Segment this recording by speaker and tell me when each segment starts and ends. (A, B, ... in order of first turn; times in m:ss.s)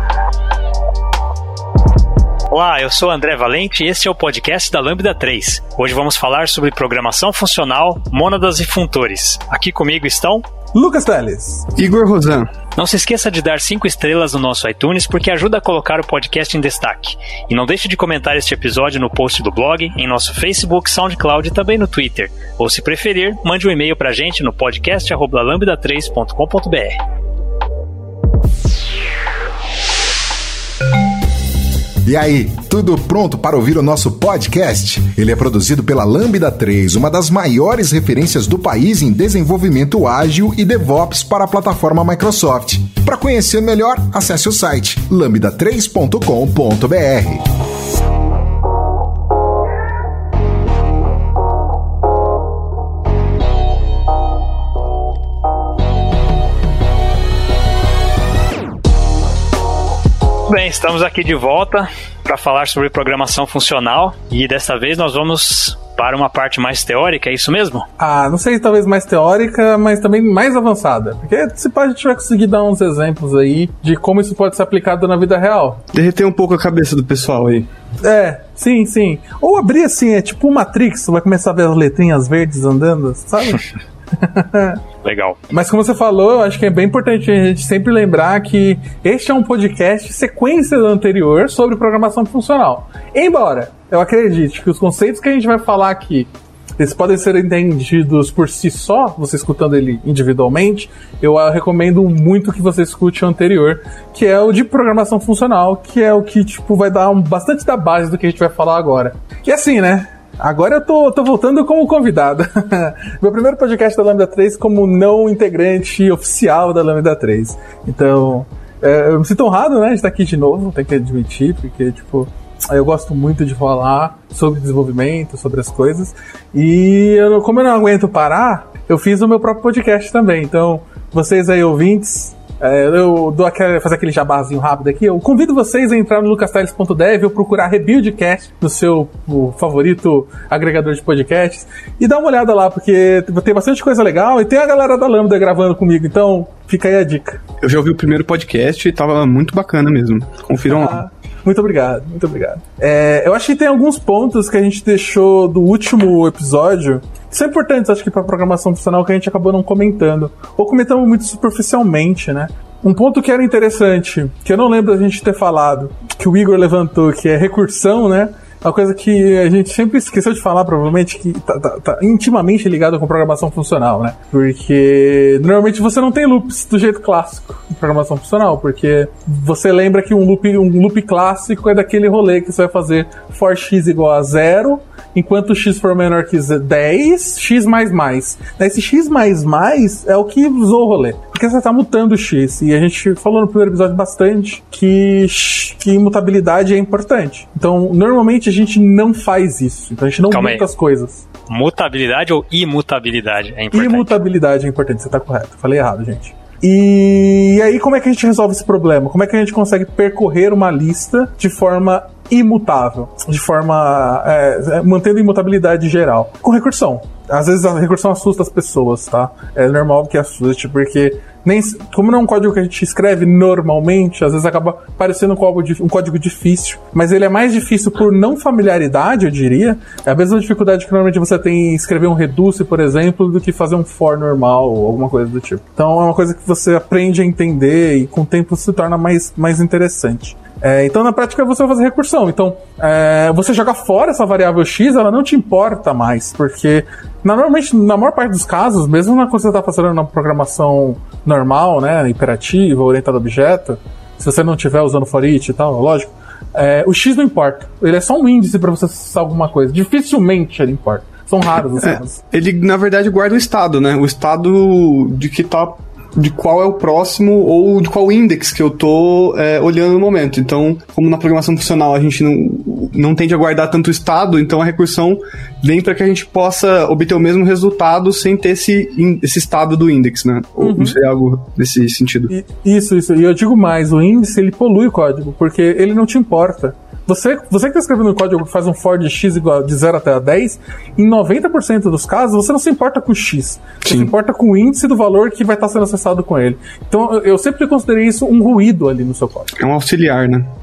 0:02.5-0:10.4 A
0:10.7-0:11.7 B
0:11.8-0:12.5 C
0:12.8-0:27.0 A
0:32.0-0:47.5 D
1:00.5-1:07.8 A
1:08.0-1:15.8 B
1:15.9-1:17.7 C
1:18.0-1:24.8 B
1:25.0-1:25.4 A
1:25.5-2:27.4 B
2:27.6-2:31.0 C
2:30.6-3:21.2 B
3:20.3-3:20.6 A
3:21.5-3:24.2 A
3:23.7-4:22.2 B
4:21.8-4:42.3 C
4:40.6-4:41.0 B
4:42.3-4:59.5 B
4:53.8-4:54.1 C
4:59.6-5:00.5 C